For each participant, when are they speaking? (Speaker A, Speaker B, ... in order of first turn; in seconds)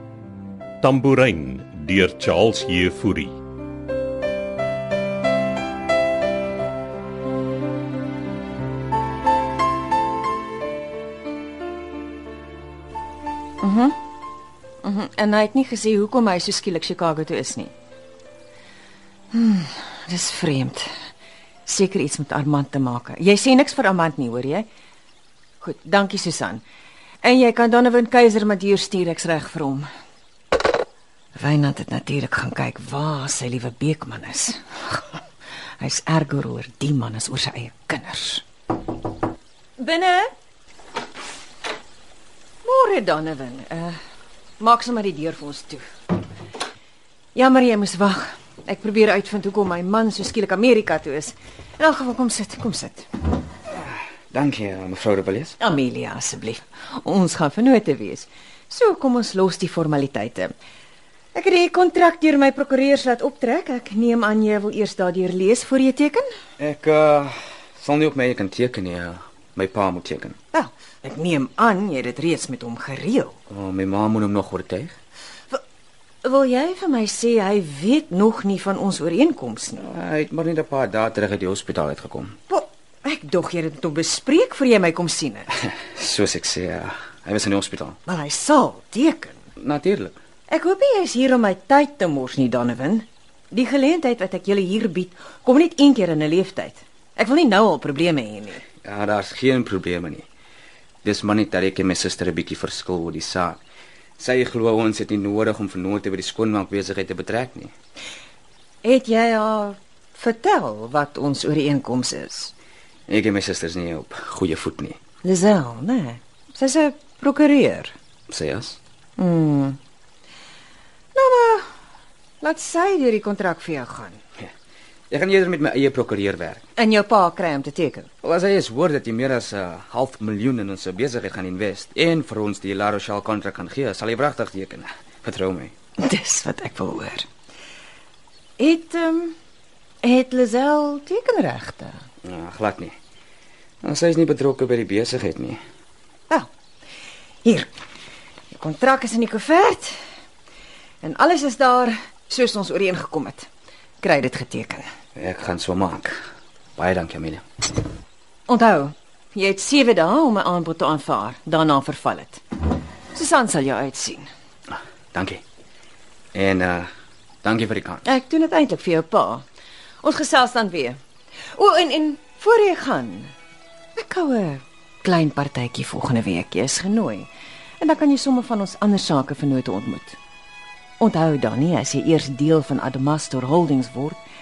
Speaker A: 0.8-3.4
Speaker B: 13.6-14.0, 14.8-17.7, 19.3-20.9, 21.7-24.7, 25.6-26.6, 27.2-29.9, 31.4-35.0, 35.8-38.4, 39.8-40.3, 42.6-44.0, 44.6-45.9, 47.4-53.1, 55.6-60.5, 61.4-66.3, 70.5-73.3, 76.2-79.8, 82.5-85.5, 88.1-89.4, 90.5-98.6, 108.8-112.5, 115.2-117.9, 119.2-119.8, 121.2-121.7, 122.4-124.2, 126.8-128.1, 136.0-137.3, 138.6-139.3, 140.0-142.0, 147.4-147.7, 148.5-150.0, 151.0-153.5, 154.0-154.9, 158.5-162.4, 163.1-164.3, 168.1-169.4, 170.0-171.0, 171.6-173.3, 174.0-177.3, 177.8-180.2, 181.0-184.2
Speaker C: 53.8-55.6, 66.6-70.4, 73.5-75.0, 79.8-82.3, 85.7-88.0, 89.6-90.2, 98.8-100.2, 101.0-103.6, 104.2-107.7, 113.1-115.0, 118.3-118.8, 125.1-126.6, 128.2-135.7, 142.2-142.9, 143.8-145.6, 155.2-156.2, 156.8-157.4, 165.1-165.4, 166.3-166.9, 167.4-168.0